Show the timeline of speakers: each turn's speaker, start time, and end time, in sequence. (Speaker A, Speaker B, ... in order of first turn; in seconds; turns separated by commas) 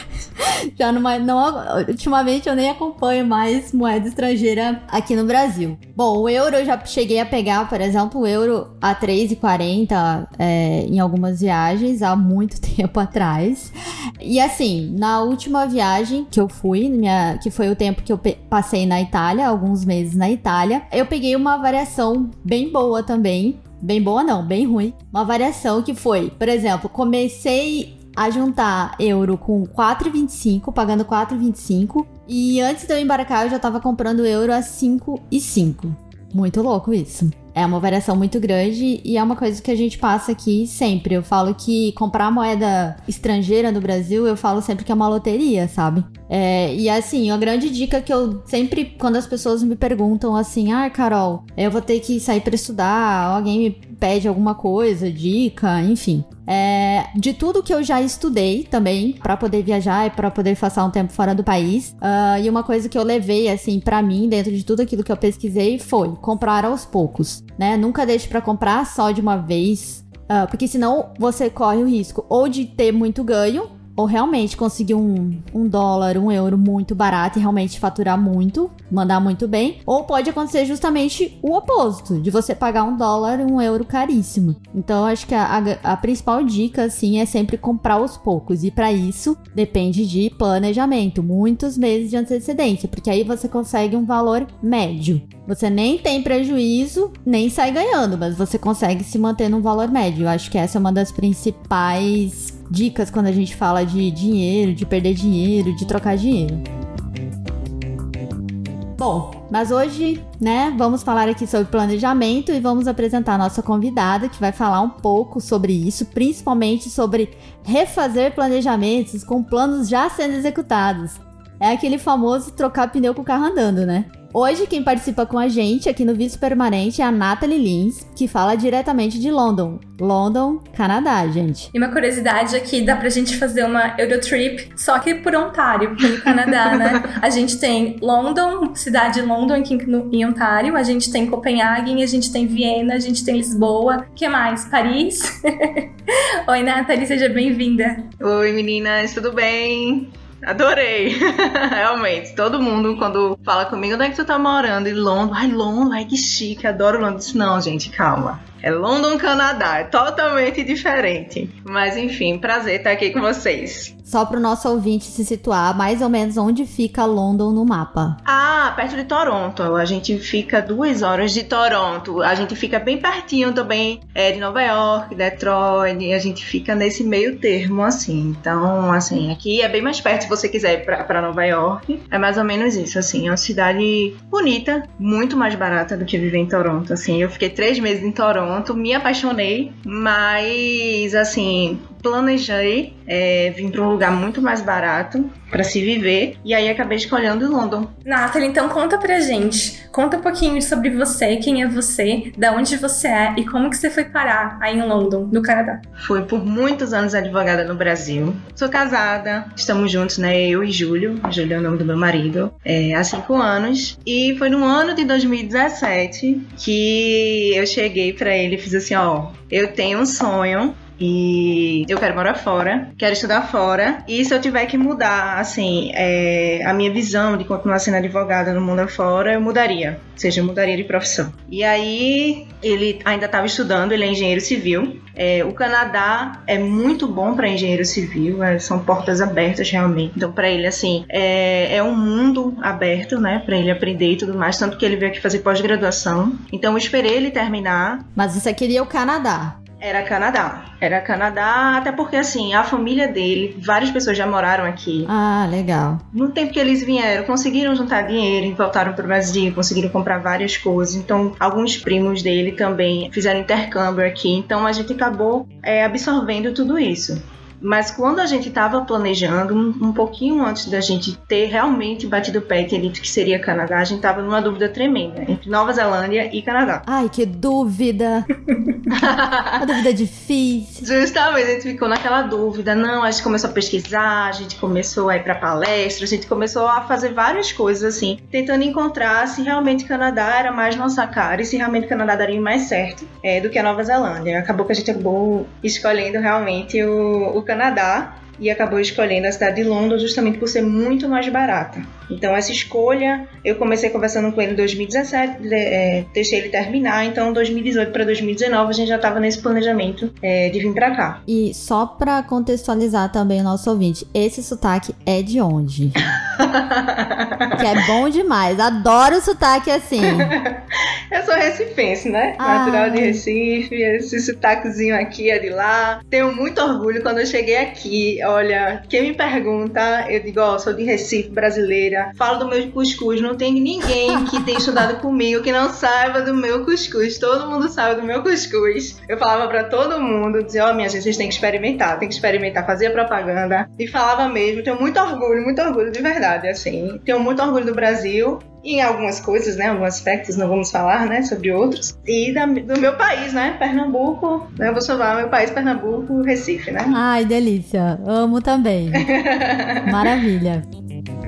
Speaker A: 0.4-106.6, Speaker A: 109.0-131.7, Speaker B: 131.7-148.1, Speaker C: 148.2-163.9, Speaker A: 164.1-168.2, Speaker C: 168.2-197.9, Speaker B: 198.0-205.8, Speaker C: 206.0-248.1, Speaker A: 248.2-249.6, Speaker C: 249.8-255.1, Speaker A: 255.1-256.0, Speaker C: 256.1-276.8, Speaker A: 276.9-278.2, Speaker C: 278.9-279.6, Speaker A: 279.6-280.9, Speaker C: 280.8-311.2, Speaker A: 311.3-316.0, Speaker C: 316.4-317.6, Speaker A: 317.5-320.3, Speaker C: 320.0-357.0, Speaker A: 322.4-323.2, Speaker A: 356.9-359.1, Speaker C: 358.9-360.0, Speaker A: 359.8-360.6